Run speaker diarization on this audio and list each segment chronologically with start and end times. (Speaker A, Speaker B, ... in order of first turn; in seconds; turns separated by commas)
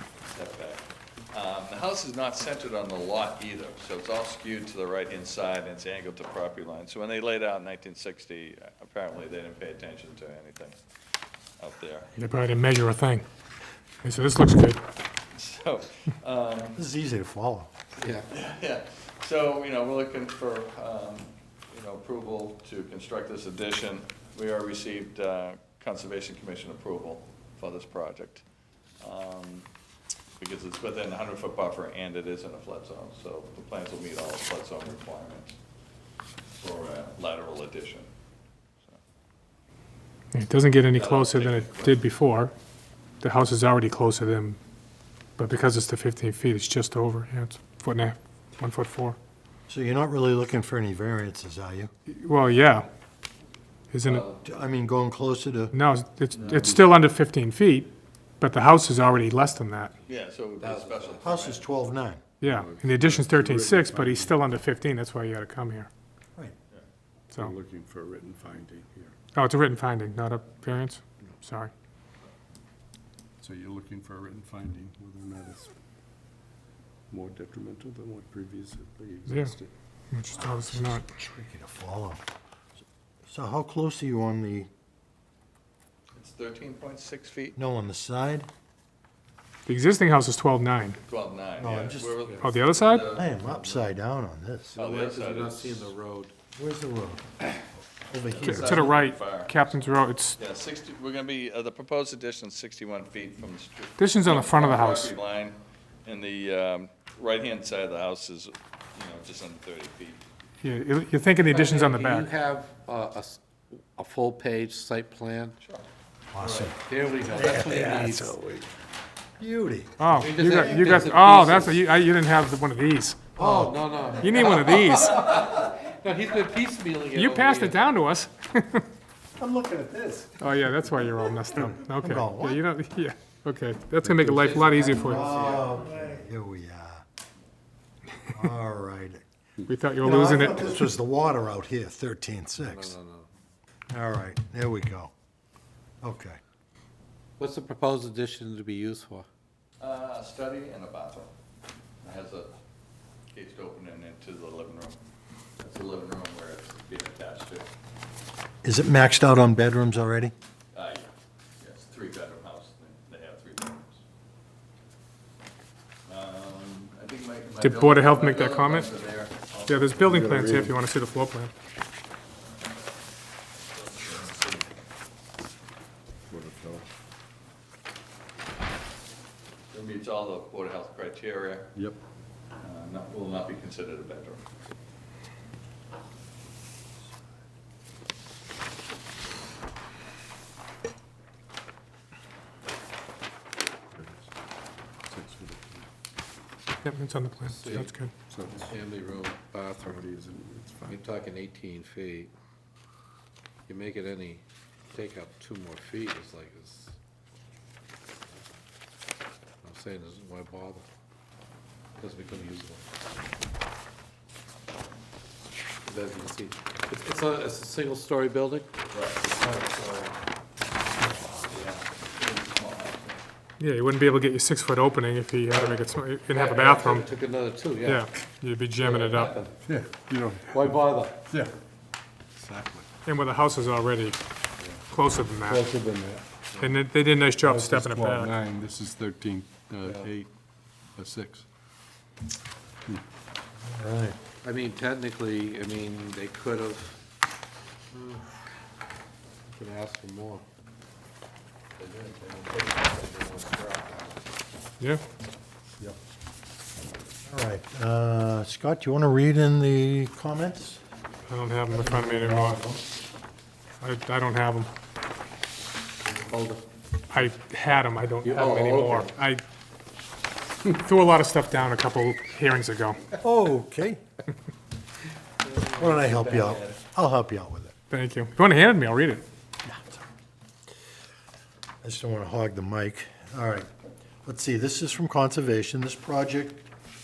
Speaker A: 0.3-10.8, Speaker A: 11.6-12.2, Speaker B: 12.2-13.2, Speaker B: 14.0-14.8, Speaker A: 15.3-16.8, Speaker C: 16.8-17.7, Speaker D: 18.0-18.3, Speaker A: 18.3-28.4, Speaker A: 29.0-29.7, Speaker A: 30.4-35.5, Speaker A: 36.6-38.1, Speaker B: 40.3-42.5, Speaker A: 40.9-42.1, Speaker B: 43.2-44.6, Speaker B: 45.4-49.2, Speaker C: 49.7-51.9, Speaker B: 52.1-52.9, Speaker B: 53.9-54.2, Speaker A: 54.0-54.5, Speaker C: 54.4-55.8, Speaker B: 55.7-59.9, Speaker A: 56.3-56.8, Speaker A: 60.1-61.6, Speaker D: 60.6-61.3, Speaker C: 61.2-62.2, Speaker B: 62.4-65.9, Speaker E: 62.4-64.4, Speaker E: 67.3-69.2, Speaker B: 69.3-71.7, Speaker E: 73.4-75.7, Speaker E: 77.1-79.7, Speaker B: 79.3-79.5, Speaker B: 80.1-81.0, Speaker C: 80.5-82.2, Speaker C: 83.3-84.7, Speaker A: 86.2-87.6, Speaker C: 87.5-88.5, Speaker B: 89.7-91.0, Speaker A: 91.0-93.3, Speaker C: 91.6-92.2, Speaker B: 92.4-93.1, Speaker C: 93.2-94.8, Speaker D: 93.4-93.8, Speaker D: 94.7-96.3, Speaker A: 94.8-95.9, Speaker C: 96.6-97.2, Speaker C: 98.0-99.0, Speaker A: 98.3-110.2, Speaker B: 98.4-100.4, Speaker B: 104.0-105.1, Speaker B: 110.6-112.3, Speaker D: 111.4-115.6, Speaker A: 115.6-115.8, Speaker C: 116.3-118.7, Speaker D: 116.4-118.3, Speaker C: 119.4-121.1, Speaker B: 120.0-123.3, Speaker D: 120.1-121.8, Speaker C: 123.4-124.5, Speaker D: 123.4-127.9, Speaker B: 124.2-125.3, Speaker B: 127.1-128.9, Speaker C: 129.4-130.4, Speaker B: 130.4-135.4, Speaker C: 131.5-132.6, Speaker D: 134.3-136.2, Speaker C: 134.9-137.0, Speaker C: 138.3-139.2, Speaker B: 139.7-140.9, Speaker C: 140.0-143.0, Speaker D: 142.7-143.3, Speaker C: 143.9-145.1, Speaker C: 146.0-146.4, Speaker D: 147.4-149.3, Speaker A: 149.8-151.3, Speaker A: 152.0-152.6, Speaker A: 153.3-155.0, Speaker A: 155.6-157.7, Speaker C: 158.6-160.3, Speaker A: 160.7-164.0, Speaker A: 166.1-170.4, Speaker B: 167.6-168.9, Speaker B: 169.7-171.5, Speaker E: 170.0-170.8, Speaker A: 173.8-174.7, Speaker E: 176.3-176.9, Speaker A: 179.7-181.7, Speaker A: 182.6-184.5, Speaker E: 193.9-194.3, Speaker E: 195.1-195.9, Speaker B: 196.8-198.1, Speaker D: 197.5-197.9, Speaker E: 197.8-198.8, Speaker D: 198.7-200.0, Speaker E: 199.8-201.1, Speaker D: 200.9-202.3, Speaker D: 203.7-207.0, Speaker D: 209.6-210.8, Speaker D: 212.0-212.8, Speaker D: 215.8-218.7, Speaker A: 218.9-220.1, Speaker A: 221.3-223.2, Speaker B: 223.6-227.1, Speaker D: 225.5-228.1, Speaker B: 227.8-229.4, Speaker D: 228.8-229.6, Speaker E: 229.6-231.5, Speaker D: 230.5-231.2, Speaker E: 232.4-232.9, Speaker B: 233.1-234.2, Speaker B: 234.9-235.7, Speaker E: 235.4-236.3, Speaker B: 236.6-238.3, Speaker E: 237.4-240.3, Speaker E: 241.0-241.5, Speaker C: 243.6-244.2, Speaker D: 244.4-247.0, Speaker D: 247.9-248.3, Speaker D: 249.5-250.4, Speaker D: 251.8-254.2, Speaker C: 257.2-260.8, Speaker B: 261.3-262.6, Speaker C: 261.7-262.8, Speaker B: 263.8-264.7, Speaker D: 266.1-266.6, Speaker B: 267.1-269.4, Speaker D: 268.2-269.2, Speaker B: 270.7-273.0, Speaker C: 273.2-274.0, Speaker D: 275.4-276.8, Speaker C: 275.7-277.7, Speaker B: 277.9-279.2, Speaker C: 279.6-280.1, Speaker C: 281.8-283.7, Speaker C: 284.2-286.7